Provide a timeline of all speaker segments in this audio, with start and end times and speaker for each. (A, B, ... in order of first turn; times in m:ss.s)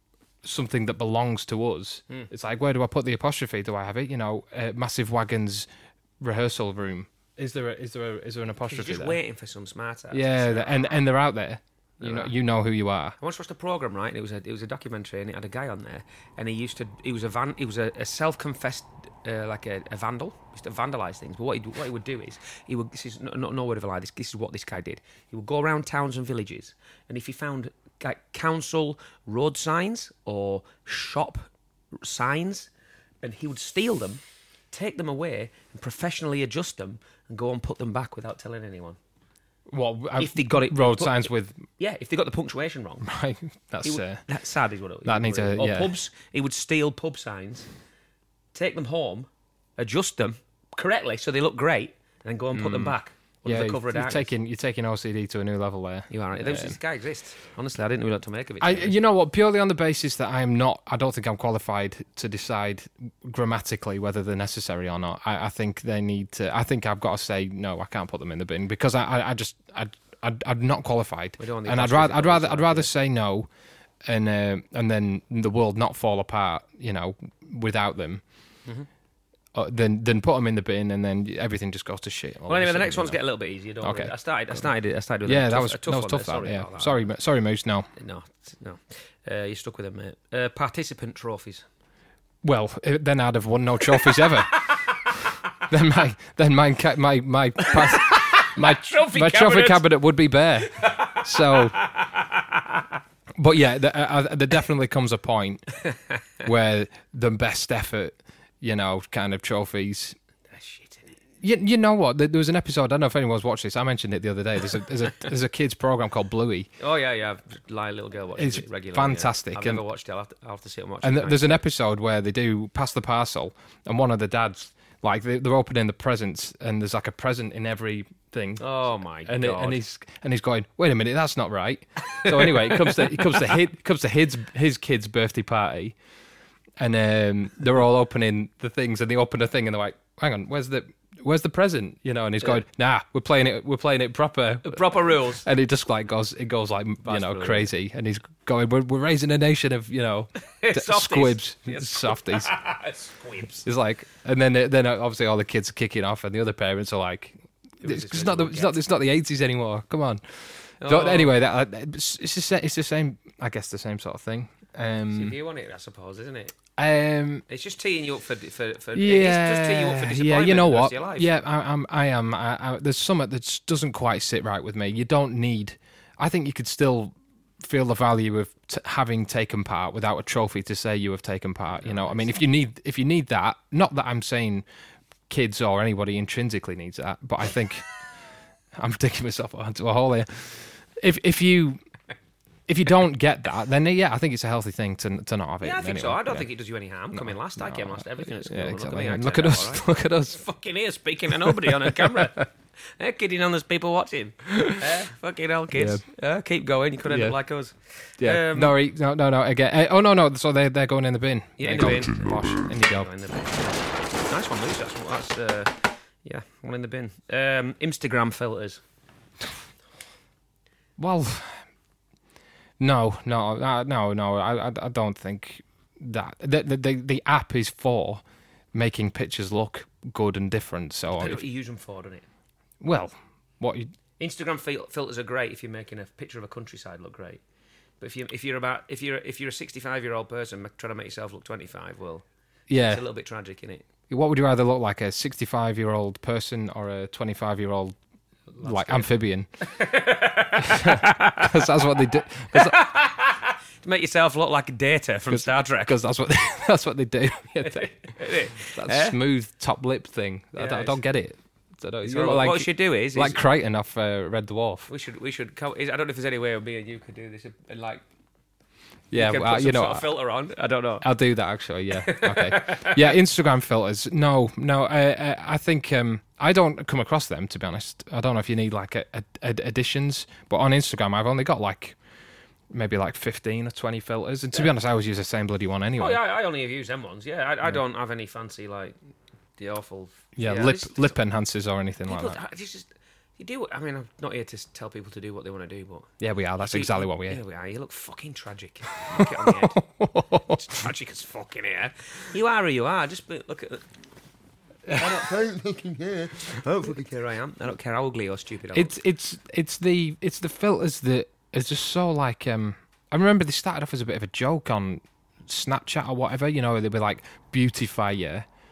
0:00.4-0:05.7 A
0:06.2-0:09.2 A
0:08.7-0:11.0 B
0:10.1-0:13.2 A
0:12.0-0:12.3 B
0:13.2-0:32.7 B
0:33.2-0:34.2 B
0:34.7-0:39.0 B
0:39.7-0:41.6 A
0:40.2-0:43.1 B
0:43.0-0:44.2 A
0:43.8-0:47.7 B
0:45.0-0:45.9 A
0:48.5-0:54.3 B
0:52.5-0:56.8 A
0:56.1-0:59.0 B
0:58.6-1:13.5 A
1:11.4-1:12.9 B
1:14.1-1:18.2 A
1:19.6-1:23.2 A
1:22.5-1:27.0 B
1:23.8-1:24.7 A
1:25.3-1:27.9 A
1:28.0-1:31.6 B
1:32.4-1:34.7 A
1:33.9-1:34.9 B
1:35.7-1:41.8 A
1:37.6-1:39.9 B
1:40.8-1:42.9 B
1:43.4-1:45.8 A
1:46.4-1:50.2 A
1:50.5-1:51.2 B
1:51.4-1:56.7 A
1:56.8-2:01.6 B
1:58.4-1:59.8 A
2:01.0-2:16.0 A
2:08.6-2:09.8 B
2:12.1-2:13.4 B
2:16.8-2:32.5 A
2:24.6-2:25.5 B
2:27.0-2:27.7 B
2:30.6-2:33.6 B
2:33.6-2:45.4 A
2:37.8-2:38.8 B
2:40.8-2:41.4 B
2:45.1-2:46.6 B
2:46.8-2:47.4 A
2:47.5-2:51.3 B
2:49.0-3:04.7 A
3:01.8-3:02.3 B
3:05.3-3:07.9 A
3:08.8-3:11.8 A
3:12.7-3:16.5 A
3:15.6-3:28.8 B
3:17.1-3:20.4 A
3:21.4-3:22.3 A
3:25.7-3:26.0 A
3:27.1-3:27.4 A
3:28.2-3:33.1 A
3:31.6-3:38.8 B
3:41.0-3:41.6 A
3:42.8-3:48.2 A
3:48.7-3:51.4 A
3:51.1-3:52.3 B
3:52.8-3:53.9 A
3:54.2-3:57.4 B
3:58.0-4:02.2 B
4:02.7-4:03.0 A
4:02.8-4:03.9 B
4:04.1-4:08.0 A
4:08.5-4:11.7 B
4:08.6-4:09.5 A
4:10.6-4:12.8 A
4:12.5-4:16.0 B
4:15.3-4:24.9 A
4:17.6-4:19.2 B
4:20.6-4:21.0 B
4:22.0-4:23.4 B
4:24.9-4:28.0 B
4:29.1-4:30.1 A
4:29.1-4:31.1 B
4:31.0-4:42.0 A
4:31.9-4:33.2 B
4:42.7-4:46.2 A
4:46.0-4:49.0 B
4:49.6-4:51.2 B
4:50.4-4:52.4 A
4:52.1-4:56.1 B
4:56.2-4:57.4 A
4:56.6-4:59.9 B
4:59.9-5:00.7 A
5:00.4-5:03.8 B
5:04.9-5:09.0 B
5:08.7-5:18.5 A